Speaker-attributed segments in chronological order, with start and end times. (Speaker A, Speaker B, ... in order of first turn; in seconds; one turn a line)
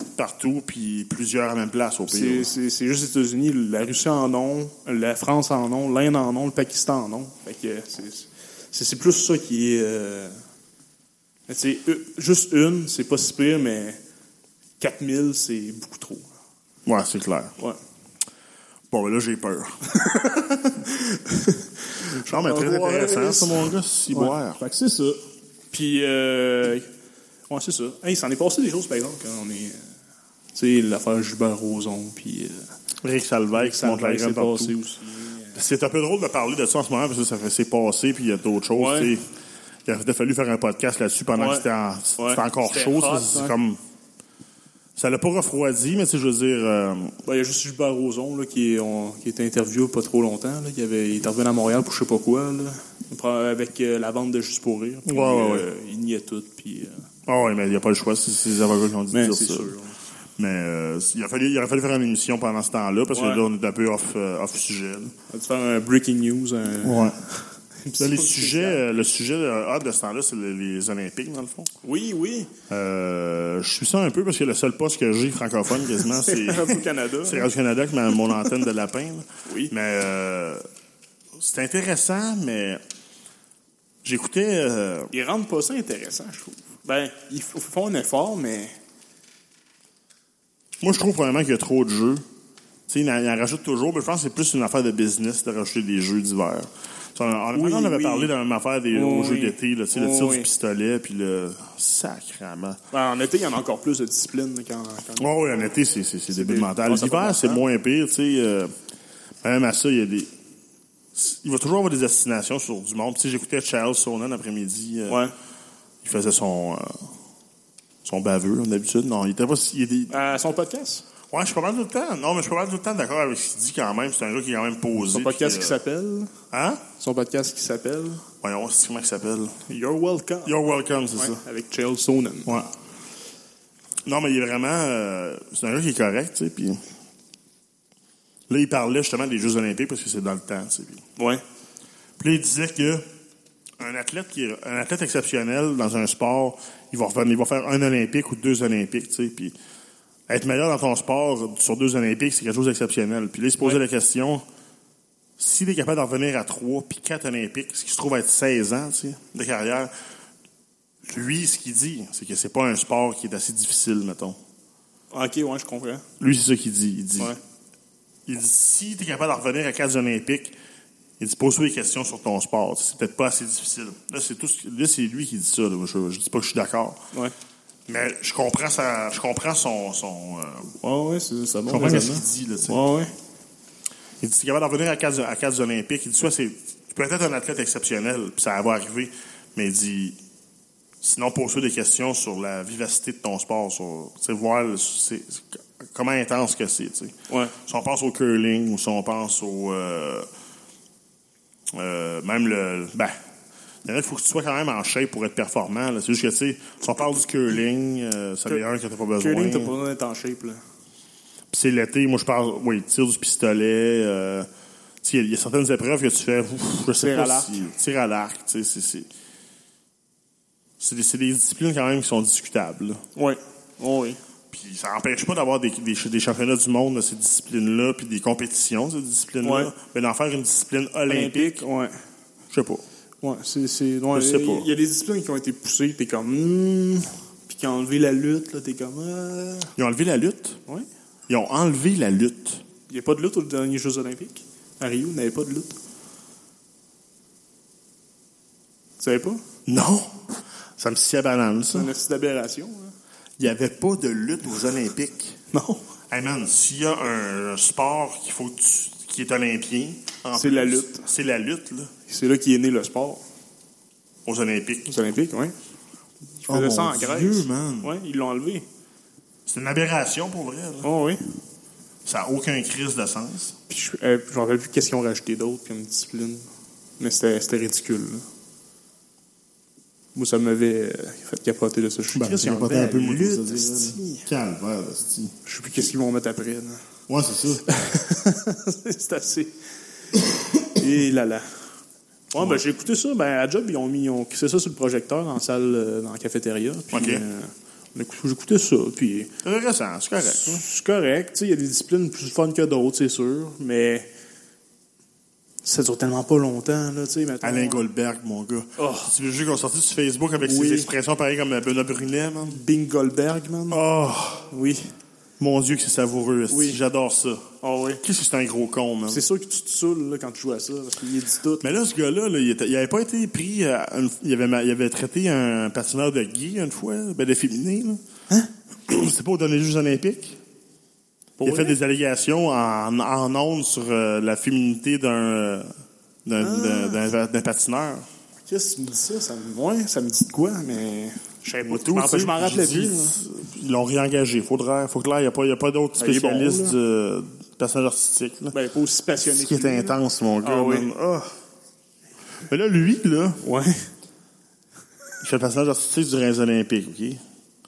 Speaker A: 0.2-2.5
Speaker B: 2.1-10.3
Speaker B: 11.5-14.0
Speaker B: 14.8-16.3
Speaker A: 16.8-17.5
Speaker A: 18.9-19.8
Speaker B: 19.9-25.2
Speaker A: 22.0-24.6
Speaker B: 25.7-26.9
Speaker B: 27.5-29.8
Speaker B: 30.5-32.6
Speaker A: 33.0-34.7
Speaker B: 33.5-35.6
Speaker A: 35.5-39.2
Speaker B: 38.8-39.1
Speaker A: 39.9-43.8
Speaker B: 41.4-41.6
Speaker B: 42.2-43.5
Speaker A: 45.0-47.1
Speaker B: 47.2-57.0
Speaker A: 55.0-55.7
Speaker A: 57.3-59.7
Speaker B: 59.1-60.0
Speaker A: 60.4-65.1
Speaker B: 63.1-63.4
Speaker B: 65.3-67.1
Speaker A: 66.8-67.1
Speaker B: 67.8-68.8
Speaker A: 68.0-71.7
Speaker B: 71.8-72.5
Speaker A: 72.7-80.6
Speaker B: 76.0-77.5
Speaker B: 79.5-79.7
Speaker A: 81.3-82.8
Speaker A: 84.0-85.1
Speaker B: 85.1-88.7
Speaker A: 90.8-92.2
Speaker A: 92.9-102.8
Speaker B: 97.5-98.3
Speaker B: 98.9-100.5
Speaker B: 102.9-105.4
Speaker A: 105.2-108.7
Speaker B: 106.3-107.6
Speaker A: 109.4-110.3
Speaker A: 111.1-115.2
Speaker A: 116.0-117.1
Speaker A: 118.0-120.1
Speaker B: 120.1-121.0
Speaker A: 121.3-125.8
Speaker B: 125.1-126.3
Speaker A: 126.5-126.8
Speaker B: 127.0-128.2
Speaker A: 128.4-129.5
Speaker B: 129.7-132.5
Speaker A: 130.4-131.4
Speaker A: 134.1-136.8
Speaker A: 138.5-141.0
Speaker B: 141.2-141.4
Speaker A: 142.2-143.0
Speaker A: 143.8-149.5
Speaker A: 150.3-154.4
Speaker A: 155.4-159.9
Speaker A: 161.0-164.4
Speaker B: 165.1-166.0
Speaker A: 166.2-167.3
Speaker A: 168.2-170.5
Speaker A: 171.2-177.0
Speaker A: 177.9-180.7
Speaker B: 180.8-183.1
Speaker A: 181.7-182.8
Speaker A: 184.2-190.2
Speaker A: 191.0-200.2
Speaker B: 197.3-197.5
Speaker A: 201.7-203.1
Speaker A: 203.8-209.7
Speaker B: 209.2-210.6
Speaker A: 211.5-214.5
Speaker A: 215.0-219.1
Speaker B: 216.9-217.6
Speaker A: 220.8-223.0
Speaker B: 223.2-224.2
Speaker A: 224.5-231.7
Speaker B: 229.4-229.7
Speaker B: 231.1-231.9
Speaker A: 232.5-232.8
Speaker B: 233.2-239.7
Speaker A: 234.1-234.7
Speaker A: 239.8-240.6
Speaker A: 241.3-242.6
Speaker B: 242.9-245.8
Speaker B: 249.0-249.4
Speaker A: 249.7-250.1
Speaker A: 250.8-251.9
Speaker B: 251.7-252.9
Speaker A: 253.4-255.4
Speaker B: 255.5-255.8
Speaker A: 256.1-261.9
Speaker B: 260.3-261.0
Speaker B: 262.1-263.2
Speaker A: 264.2-264.9
Speaker B: 264.9-265.5
Speaker B: 266.4-268.6
Speaker A: 266.5-267.9
Speaker A: 269.4-270.9
Speaker B: 270.8-271.2
Speaker A: 272.0-273.6
Speaker B: 273.7-276.4
Speaker B: 277.0-278.2
Speaker B: 280.1-284.3
Speaker A: 282.1-285.3
Speaker B: 285.4-286.8
Speaker A: 287.1-287.7
Speaker B: 287.6-289.5
Speaker B: 290.7-291.5
Speaker B: 292.3-299.3
Speaker A: 296.9-297.2
Speaker A: 299.4-300.6
Speaker B: 300.2-304.1
Speaker B: 305.6-307.8
Speaker A: 307.4-312.6
Speaker B: 308.8-309.1
Speaker B: 310.4-310.9
Speaker B: 312.5-313.8
Speaker A: 313.7-314.5
Speaker B: 314.5-314.9
Speaker A: 315.4-317.5
Speaker B: 316.5-316.8
Speaker B: 317.6-318.0
Speaker A: 318.0-319.2
Speaker B: 319.1-321.8
Speaker A: 321.6-328.0
Speaker A: 328.9-330.4
Speaker B: 331.4-331.8
Speaker A: 331.4-335.7
Speaker A: 336.2-338.1
Speaker B: 336.4-337.0
Speaker B: 338.5-343.1
Speaker A: 341.6-348.5
Speaker B: 346.0-346.8
Speaker B: 348.5-350.9
Speaker A: 349.3-351.3
Speaker A: 352.5-353.4
Speaker B: 353.4-353.8
Speaker A: 355.2-357.2